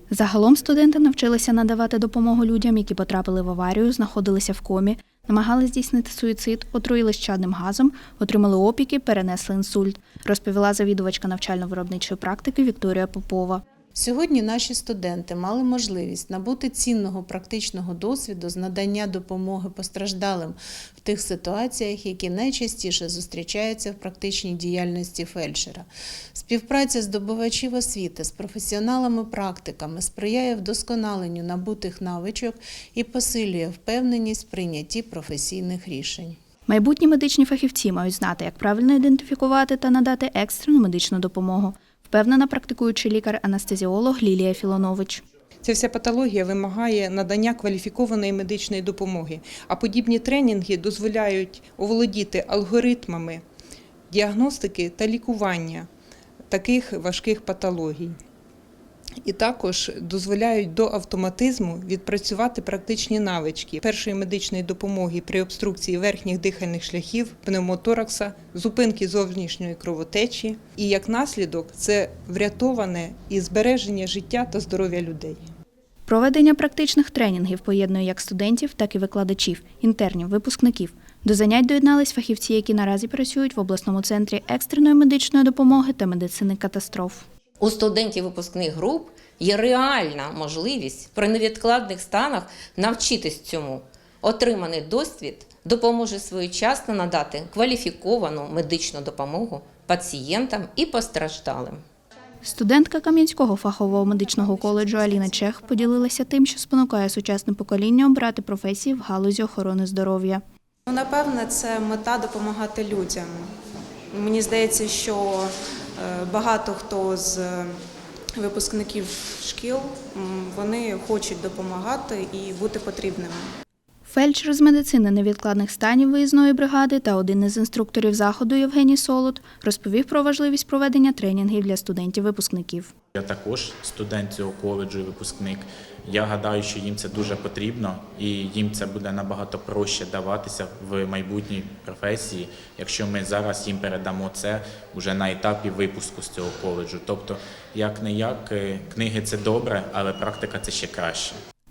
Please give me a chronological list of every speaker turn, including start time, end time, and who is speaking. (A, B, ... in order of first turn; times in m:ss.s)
0:00.1-0:13.6 A
0:14.0-0:36.4 B
0:36.7-0:45.2 A
0:45.6-0:53.4 C
0:54.1-0:55.9 C
0:56.5-0:58.2 C
0:59.2-1:15.5 C
1:16.1-1:27.3 A
1:27.6-1:41.8 D
1:42.4-1:50.4 A
1:50.9-1:53.6 E
1:54.1-1:57.8 E
1:58.4-2:03.5 E
2:04.1-2:12.9 A
2:13.1-2:31.4 F